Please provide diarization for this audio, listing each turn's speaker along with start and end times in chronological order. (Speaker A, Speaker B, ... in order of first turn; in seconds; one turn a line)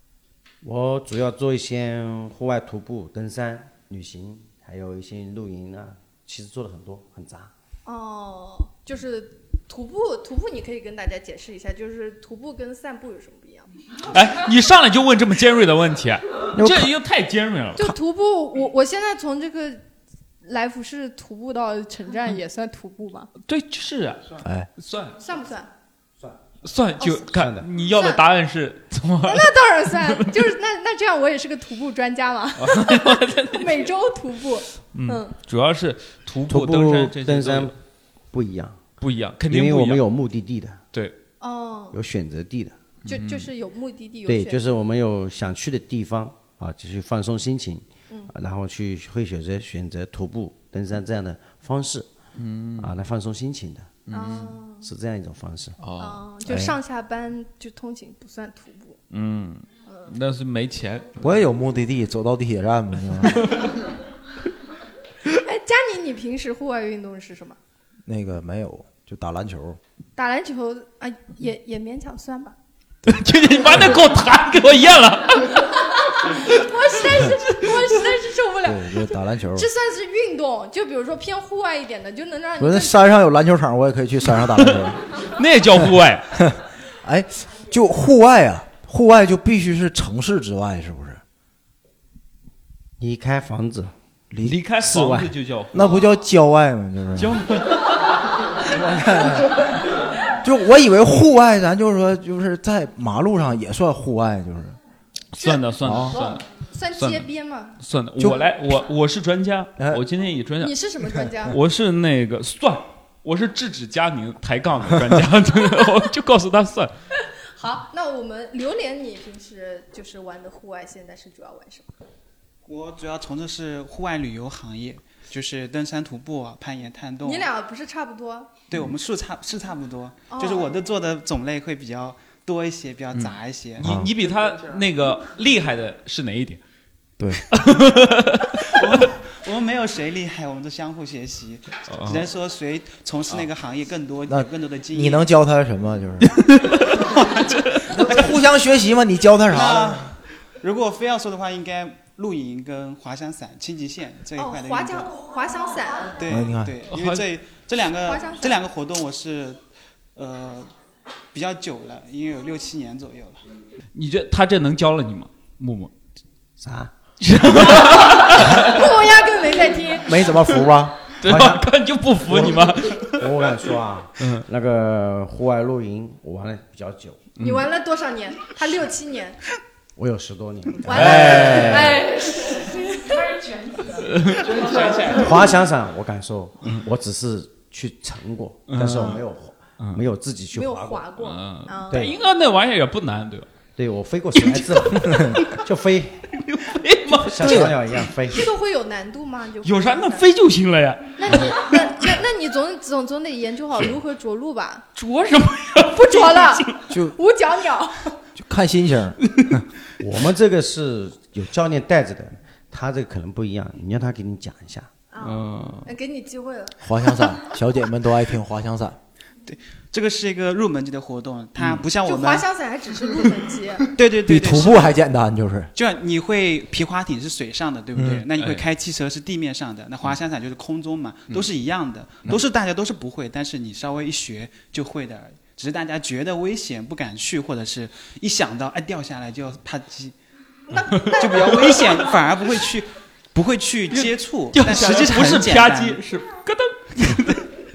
Speaker A: 0.6-7.5
Speaker B: 7.8-13.7
Speaker C: 14.1-18.0
Speaker D: 16.5-16.9
Speaker B: 17.8-19.8
Speaker B: 20.4-23.3
Speaker C: 23.4-25.2
Speaker B: 25.2-25.7
Speaker C: 26.6-30.5
Speaker A: 27.3-27.6
Speaker B: 27.9-28.2
Speaker B: 29.2-35.4
Speaker C: 32.6-33.9
Speaker C: 34.9-37.7
Speaker A: 36.5-37.7
Speaker A: 38.3-38.8
Speaker C: 39.0-40.0
Speaker A: 39.5-40.8
Speaker B: 41.4-42.0
Speaker A: 41.9-42.7
Speaker C: 43.0-43.5
Speaker B: 43.1-44.6
Speaker A: 44.2-52.1
Speaker C: 52.4-52.9
Speaker A: 52.8-53.9
Speaker C: 54.1-54.6
Speaker B: 54.1-54.9
Speaker A: 54.8-55.8
Speaker C: 55.8-56.3
Speaker B: 56.0-59.0
Speaker D: 56.5-56.7
Speaker C: 59.1-61.2
Speaker D: 61.2-63.5
Speaker C: 63.3-63.7
Speaker B: 65.4-67.6
Speaker D: 68.0-69.8
Speaker B: 70.2-72.5
Speaker C: 73.0-75.8
Speaker B: 75.9-83.0
Speaker D: 78.6-79.7
Speaker D: 82.6-85.0
Speaker C: 84.6-86.4
Speaker D: 87.0-91.2
Speaker A: 93.0-93.9
Speaker D: 94.3-97.6
Speaker C: 94.4-96.2
Speaker C: 97.2-97.9
Speaker D: 98.6-99.7
Speaker D: 100.4-104.8
Speaker C: 105.3-110.7
Speaker B: 105.4-107.8
Speaker D: 105.8-106.2
Speaker D: 108.2-108.5
Speaker B: 110.6-111.6
Speaker C: 111.5-116.9
Speaker B: 117.5-121.9
Speaker E: 122.7-127.5
Speaker B: 127.2-128.5
Speaker E: 128.7-134.9
Speaker B: 130.3-130.8
Speaker C: 133.1-136.6
Speaker D: 133.8-134.1
Speaker D: 137.2-137.4
Speaker C: 137.5-138.8
Speaker E: 138.7-145.2
Speaker C: 141.9-142.3
Speaker D: 144.3-146.4
Speaker C: 146.2-146.8
Speaker E: 147.2-148.3
Speaker D: 147.9-150.1
Speaker E: 149.5-155.1
Speaker B: 154.3-156.2
Speaker E: 156.2-159.6
Speaker D: 156.3-156.7
Speaker C: 156.9-157.2
Speaker B: 158.0-158.6
Speaker E: 160.2-160.7
Speaker E: 161.3-163.4
Speaker C: 163.9-165.9
Speaker A: 166.6-166.9
Speaker C: 167.2-168.8
Speaker B: 168.0-170.1
Speaker D: 170.1-171.0
Speaker C: 171.2-173.3
Speaker A: 171.2-171.7
Speaker A: 172.3-177.2
Speaker C: 174.2-174.4
Speaker C: 177.4-177.7
Speaker B: 177.4-179.4
Speaker A: 180.0-181.4
Speaker B: 180.8-183.2
Speaker D: 180.9-182.0
Speaker C: 180.9-182.0
Speaker C: 184.0-185.3
Speaker E: 184.5-185.3
Speaker A: 185.2-191.1
Speaker C: 188.7-189.2
Speaker B: 188.9-189.2
Speaker B: 190.5-192.1
Speaker C: 191.2-193.5
Speaker A: 193.8-196.3
Speaker C: 194.3-195.6
Speaker D: 195.0-195.3
Speaker C: 196.4-198.1
Speaker A: 197.1-198.4
Speaker D: 197.4-197.7
Speaker B: 198.3-200.2
Speaker C: 199.6-202.1
Speaker B: 201.2-204.9
Speaker C: 204.9-206.8
Speaker B: 205.8-208.2
Speaker D: 206.9-207.1
Speaker D: 208.4-209.2
Speaker A: 210.0-214.9
Speaker B: 215.1-216.8
Speaker C: 215.2-215.9
Speaker D: 216.8-219.0
Speaker E: 219.4-222.5
Speaker C: 221.6-221.8
Speaker B: 221.9-223.9
Speaker E: 223.9-224.9
Speaker D: 224.2-225.7
Speaker E: 225.7-240.2
Speaker D: 228.0-228.2
Speaker C: 228.4-228.7
Speaker B: 240.7-241.8
Speaker E: 240.9-246.0
Speaker C: 241.0-241.9
Speaker C: 243.9-247.4